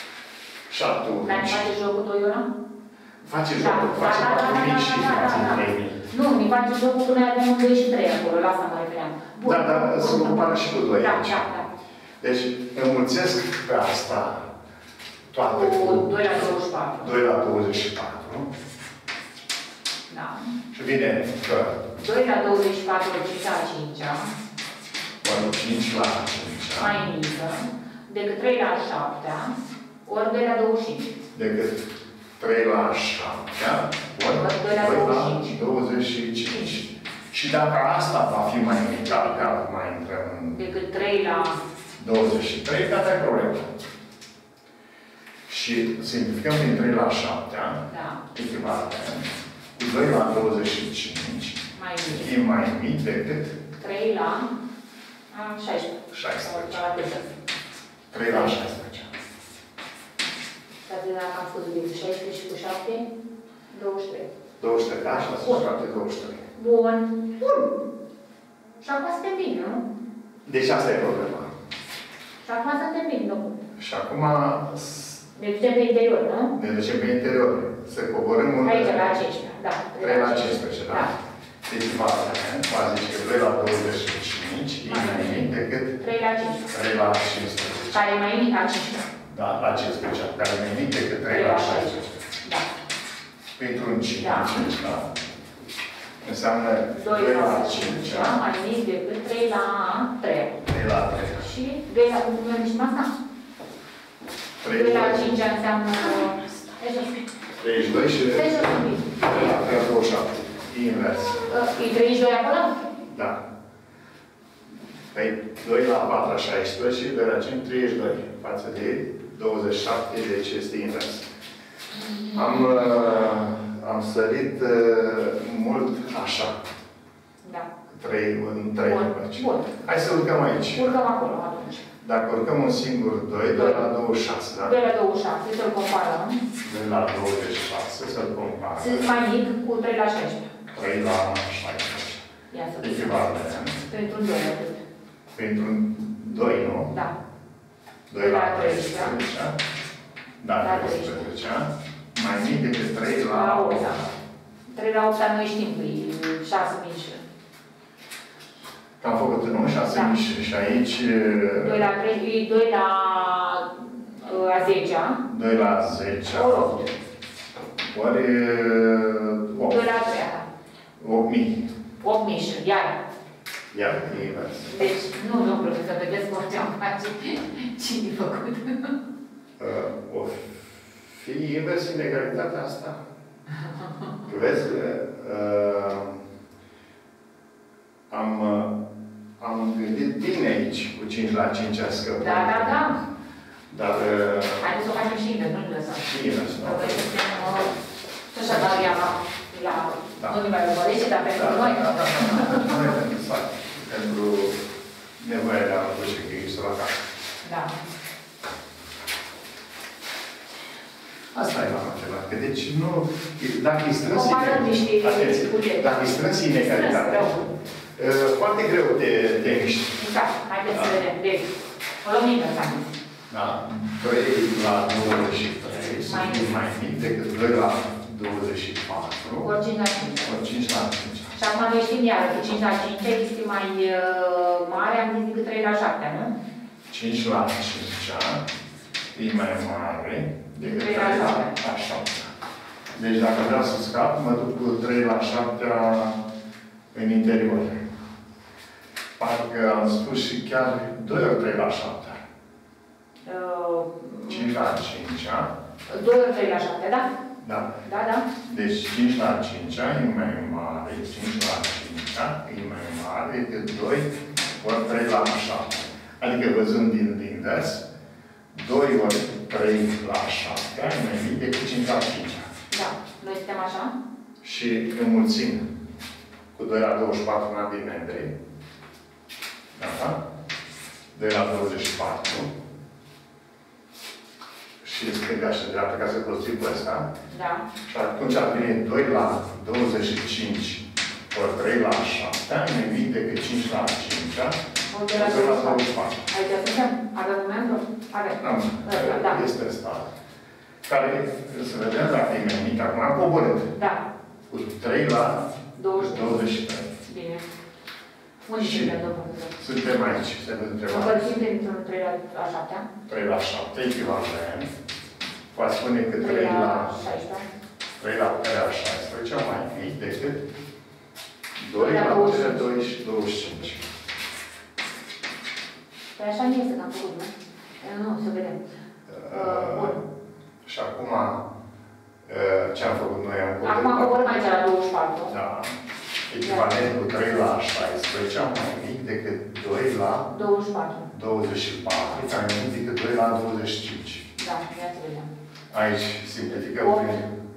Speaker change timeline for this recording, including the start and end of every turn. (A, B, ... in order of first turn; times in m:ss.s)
0:00.7-0:01.7 A
0:01.2-0:02.5 B
0:03.2-0:06.0 A
0:03.6-0:11.7 B
0:09.4-0:11.5 A
0:12.2-0:14.5 A
0:15.3-0:18.5 A
0:15.5-0:17.2 B
0:20.1-0:20.5 B
0:20.7-0:21.9 A
0:22.0-0:24.3 B
0:25.2-0:27.0 A
0:26.8-0:31.2 B
0:31.3-0:31.8 A
0:32.4-0:40.6 A
0:34.2-0:35.7 B
0:39.0-0:39.5 B
0:40.5-0:41.6 B
0:42.0-0:43.7 A
0:45.5-0:53.6 A
0:47.9-0:48.2 B
0:51.8-0:52.3 B
0:53.8-0:54.6 B
0:55.3-0:57.4 B
0:56.1-0:56.8 A
0:58.1-0:59.1 A
1:00.9-1:03.1 B
1:03.7-1:04.3 B
1:04.6-1:06.5 A
1:05.1-1:05.7 B
1:06.6-1:07.3 B
1:07.4-1:07.7 A
1:08.8-1:09.8 B
1:10.5-1:11.5 A
1:12.4-1:13.6 B
1:13.8-1:15.2 A
1:15.4-1:16.6 B
1:16.6-1:19.2 A
1:18.6-1:21.1 B
1:20.0-1:21.1 A
1:21.7-1:26.0 A
1:24.9-1:26.7 B
1:26.7-1:28.1 A
1:27.9-1:29.1 B
1:29.3-1:32.2 A
1:31.3-1:32.7 B
1:33.6-1:35.1 A
1:34.2-1:34.7 B
1:36.2-1:38.4 A
1:37.0-1:43.1 B
1:40.7-1:41.5 A
1:44.6-1:45.3 A
1:44.7-1:47.2 B
1:47.6-1:51.5 A
1:48.3-1:49.6 B
1:51.5-1:52.8 B
1:53.1-1:53.4 A
1:55.1-2:01.3 A
2:02.0-2:03.2 B
2:02.3-2:06.5 A
2:07.4-2:07.7 B
2:07.9-2:11.0 A
2:08.8-2:09.7 B
2:10.6-2:11.9 B
2:12.0-2:14.8 A
2:13.5-2:13.9 B
2:14.6-2:16.4 B
2:16.6-2:19.1 A
2:18.8-2:20.6 B
2:20.7-2:22.2 A
2:22.5-2:23.2 B
2:22.8-2:23.8 A
2:23.9-2:24.8 B
2:25.3-2:27.0 A
2:28.1-2:29.6 A
2:28.2-2:29.2 B
2:30.4-2:34.2 A
2:30.6-2:31.3 B
2:33.2-2:34.0 B
2:34.7-2:37.2 B
2:39.0-2:41.9 A
2:39.9-2:40.2 B
2:41.6-2:45.2 B
2:45.3-2:46.8 A
2:46.3-2:46.9 B
2:47.9-2:49.9 A
2:49.6-2:50.5 B
2:51.0-2:51.7 A
2:52.0-2:53.0 B
2:53.7-2:54.8 A
2:54.7-2:58.9 B
2:59.6-3:03.0 A
3:04.2-3:06.2 A
3:08.1-3:08.8 A
3:09.4-3:12.9 A
3:12.2-3:13.0 B
3:13.7-3:14.7 A
3:14.6-3:17.7 B
3:16.0-3:17.0 A
3:18.3-3:22.9 B
3:21.3-3:24.6 A
3:25.2-3:27.0 A
3:27.4-3:27.8 B
3:31.3-3:37.4 A
3:34.1-3:37.5 B
3:38.0-3:40.0 A
3:40.0-3:41.5 B
3:40.7-3:41.0 A
3:42.0-3:43.0 B
3:43.3-3:49.5 A
3:46.0-3:46.5 B
3:49.4-3:50.4 B
3:50.2-3:51.4 A
3:51.3-3:56.4 B
3:56.9-3:58.4 A
3:59.1-4:02.3 A
4:00.6-4:01.6 B
4:02.9-4:06.2 A
4:06.9-4:07.8 A
4:09.2-4:12.2 A
4:13.3-4:14.6 B
4:14.3-4:15.5 A
4:15.9-4:17.1 B
4:17.4-4:17.8 A
4:17.8-4:18.3 B
4:18.4-4:27.9 A
4:28.5-4:32.5 A
4:32.7-4:34.0 B
4:34.4-4:35.7 A
4:36.6-4:38.3 A
4:39.8-4:40.2 A
4:41.1-4:42.5 A
4:44.8-4:47.1 A
4:47.3-4:47.7 B
4:47.9-4:54.6 A
4:54.9-4:59.4 B
4:55.1-4:56.2 A
4:58.4-5:00.1 A
5:00.9-5:03.7 A
5:03.7-5:04.1 B
5:04.5-5:06.9 A
5:05.8-5:07.5 B
5:08.5-5:09.5 B
5:08.6-5:09.0 A
5:09.5-5:11.2 A
5:10.9-5:12.9 B
5:13.1-5:14.7 A
5:15.5-5:16.9 A
5:16.2-5:17.5 B
5:18.0-5:20.4 A
5:21.6-5:23.8 A
5:21.8-5:22.8 B
5:26.2-5:28.6 B
5:29.1-5:30.0 A
5:29.3-5:30.0 B
5:30.6-5:31.5 A
5:32.3-5:34.5 A
5:33.6-5:35.4 B
5:35.3-5:35.7 A
5:36.3-5:40.3 A
5:36.4-5:36.8 B
5:40.3-5:41.1 B
5:41.1-5:44.3 A
5:44.4-5:45.3 B
5:45.7-5:47.3 A
5:46.6-5:47.2 B